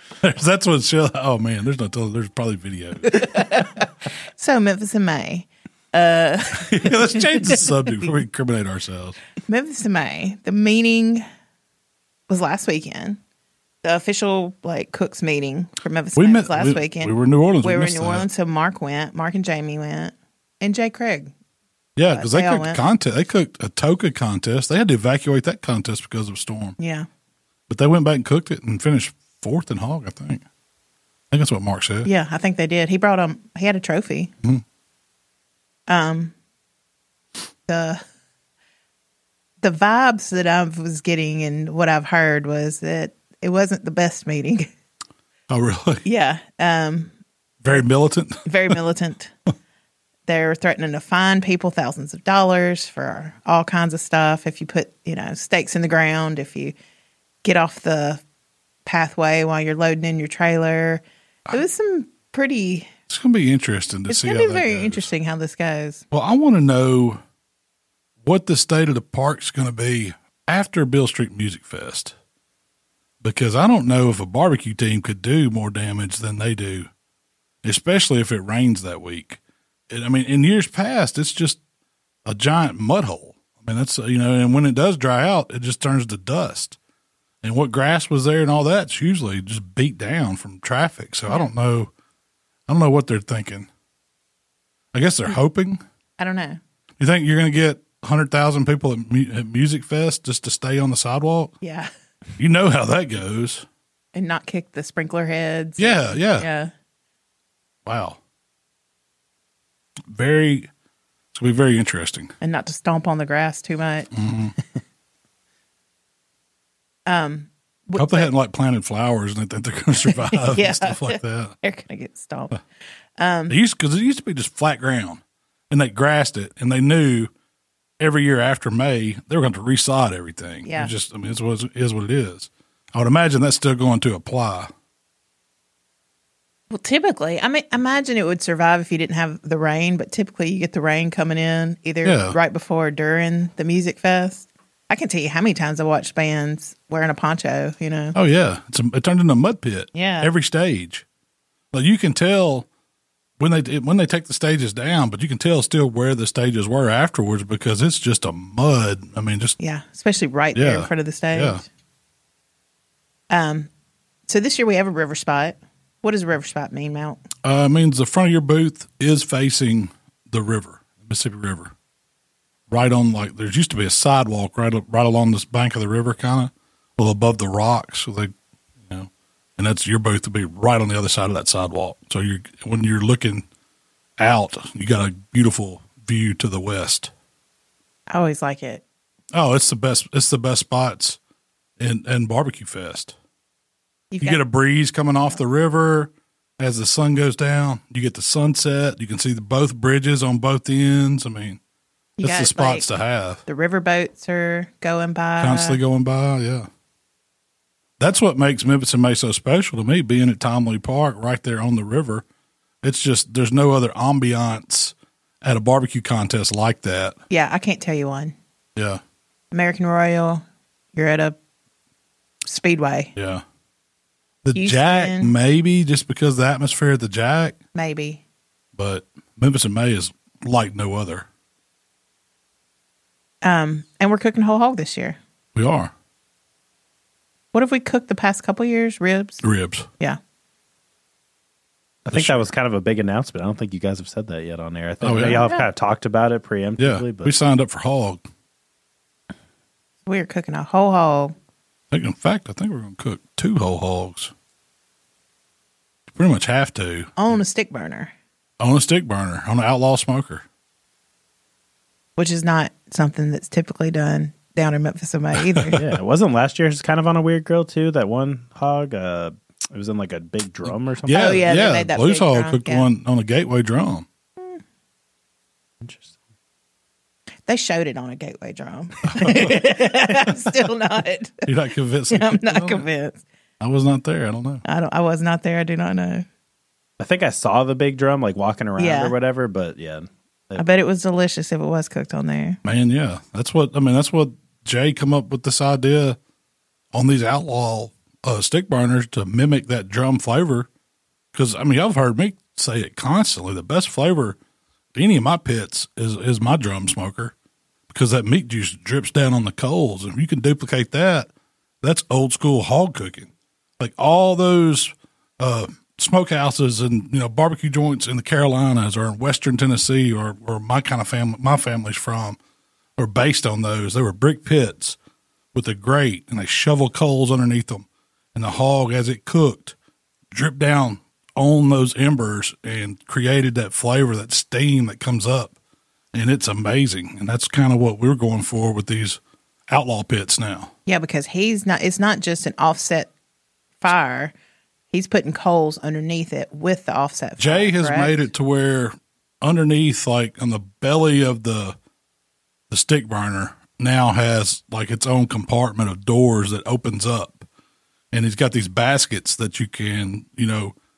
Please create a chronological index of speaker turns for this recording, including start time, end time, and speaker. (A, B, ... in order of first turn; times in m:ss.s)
0:00.2-0:03.3 A
0:03.1-0:07.6 B
0:06.6-0:09.2 A
0:09.4-0:11.2 B
0:12.3-0:13.2 B
0:13.8-0:21.3 B
0:16.2-0:18.3 A
0:22.0-0:26.8 A
0:22.1-0:22.8 B
0:26.8-0:27.1 B
0:27.7-0:30.4 A
0:31.3-0:32.1 A
0:32.0-0:34.3 B
0:35.9-0:36.3 B
0:37.7-0:38.0 B
0:39.6-0:44.7 B
0:45.5-0:46.0 A
0:46.0-0:47.1 B
0:47.6-0:48.7 A
0:48.4-0:49.3 B
0:50.3-0:56.7 B
0:57.4-0:58.2 B
0:58.9-1:02.9 B
1:03.1-1:05.1 A
1:04.1-1:06.0 B
1:06.1-1:07.2 A
1:08.2-1:12.1 A
1:13.2-1:16.9 A
1:17.6-1:21.6 A
1:22.3-1:26.8 A
1:27.4-1:31.9 A
1:32.7-1:33.7 A
1:34.9-1:35.8 A
1:36.2-1:36.6 B
1:37.0-1:41.6 A
1:41.6-1:41.9 B
1:42.4-1:43.6 A
1:44.1-1:46.7 B
1:45.8-1:46.5 A
1:47.9-1:48.2 A
1:50.1-1:50.7 A
1:51.3-1:52.3 A
1:52.4-1:54.1 B
1:54.1-1:54.6 A
1:57.0-1:58.3 B
1:58.0-2:01.5 A
2:00.0-2:02.6 B
2:03.2-2:03.6 B
2:03.5-2:07.3 A
2:08.0-2:14.7 A
2:10.6-2:10.9 B
2:16.7-2:28.2 B
2:22.0-2:22.4 A
2:28.1-2:31.0 A
2:29.9-2:30.3 B
2:31.7-2:32.7 A
2:33.4-2:39.6 A
2:39.6-2:41.6 B
2:40.6-2:41.6 A
2:43.3-2:43.7 B
2:44.3-2:47.2 B
2:47.4-2:51.7 A
2:52.7-2:58.3 A
2:58.9-3:03.4 A
3:04.2-3:07.1 A
3:08.1-3:08.8 B
3:09.3-3:11.2 A
3:11.8-3:13.1 A
3:14.1-3:14.4 B
3:14.2-3:21.6 A
3:22.2-3:22.9 B
3:22.2-3:23.4 A
3:23.4-3:25.8 B
3:25.4-3:26.7 A
3:28.0-3:32.2 A
3:32.8-3:37.2 A
3:37.3-3:38.3 B
3:38.8-3:39.0 A
3:39.5-3:40.4 B
3:40.9-3:41.4 B
3:42.4-3:43.1 B
3:43.1-3:43.4 A
3:44.4-3:47.6 A
3:44.5-3:45.3 B
3:47.7-3:48.2 B
3:48.7-3:51.3 A
3:53.4-3:55.2 B
3:55.6-3:55.9 A
3:57.5-3:59.4 B
3:59.4-3:59.9 A
4:02.0-4:07.3 C
4:02.1-4:02.5 A
4:05.0-4:05.5 A
4:05.3-4:05.7 B
4:06.8-4:08.2 A
4:10.0-4:11.3 B
4:11.9-4:14.3 A
4:16.1-4:17.1 A
4:17.2-4:18.1 B
4:18.6-4:20.4 A
4:22.2-4:25.8 B
4:25.3-4:26.0 A
4:25.8-4:31.5 C
4:30.7-4:34.0 A
4:31.1-4:32.9 B
4:35.8-4:36.1 C
4:37.4-4:41.4 B
4:39.0-4:39.8 A
4:41.4-4:42.8 A
4:42.1-4:43.2 B
4:43.6-4:44.6 A
4:44.6-4:46.3 B
4:47.0-4:50.6 C
4:48.8-4:49.1 B
4:50.6-4:52.6 B
4:52.6-4:56.2 A
4:56.9-5:00.7 A
5:01.3-5:04.4 A
5:04.9-5:07.3 A
5:07.9-5:11.3 A
5:11.8-5:22.4 A
5:23.0-5:25.0 A
5:25.5-5:29.8 A
5:30.3-5:35.5 A
5:36.1-5:40.7 A
5:40.9-5:43.1 B
5:43.8-5:44.3 B
5:44.9-5:48.2 B
5:47.4-5:51.8 A
5:52.7-5:57.4 A
5:58.1-6:00.7 A